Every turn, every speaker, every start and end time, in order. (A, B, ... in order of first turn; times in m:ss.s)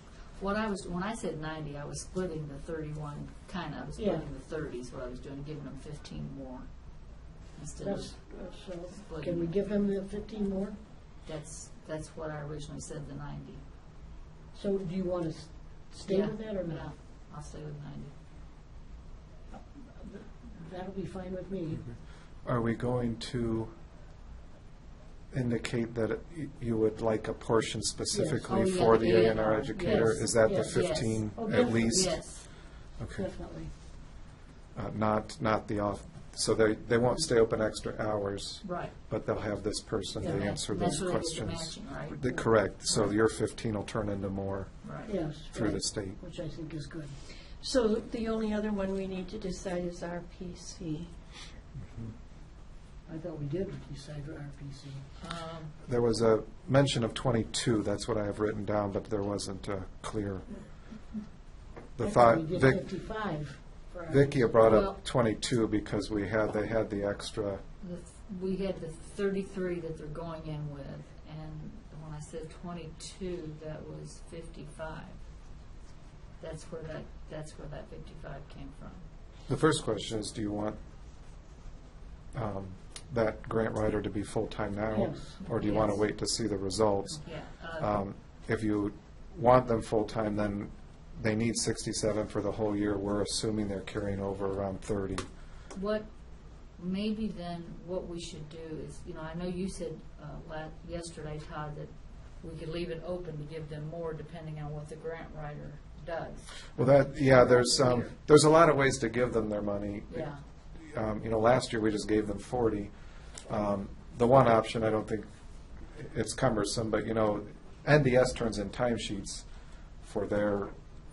0:00.4-0:06.7 A
0:04.0-0:04.3 B
0:07.5-0:08.2 A
0:07.8-0:10.8 B
0:08.9-0:09.5 A
0:11.2-0:13.6 A
0:14.5-0:16.9 B
0:16.0-0:18.1 A
0:19.5-0:21.9 B
0:22.4-0:23.7 C
0:25.3-0:32.4 C
0:28.1-0:28.6 B
0:28.4-0:32.5 A
0:29.8-0:30.8 B
0:31.4-0:32.3 B
0:33.0-0:33.3 C
0:33.2-0:33.7 B
0:34.8-0:44.8 C
0:38.6-0:38.9 A
0:40.2-0:41.0 B
0:40.2-0:42.2 A
0:44.8-0:45.2 A
0:45.0-0:47.2 B
0:45.5-0:46.2 C
0:47.6-0:51.1 D
0:53.1-0:55.0 B
0:55.2-0:55.7 A
0:55.8-1:00.6 C
1:02.0-1:02.9 C
1:02.0-1:04.5 B
1:04.1-1:07.6 C
1:04.6-1:05.0 A
1:07.8-1:15.2 A
1:16.4-1:19.0 A
1:19.5-1:20.8 C
1:22.3-1:27.2 C
1:24.9-1:25.6 B
1:25.4-1:26.0 A
1:27.1-1:28.0 A
1:27.8-1:35.2 C
1:35.7-1:36.1 A
1:36.8-1:48.1 A
1:46.8-1:50.3 C
1:50.1-1:50.4 A
1:50.8-1:52.9 C
1:53.5-1:55.3 C
1:55.9-1:59.5 C
2:00.0-2:00.7 C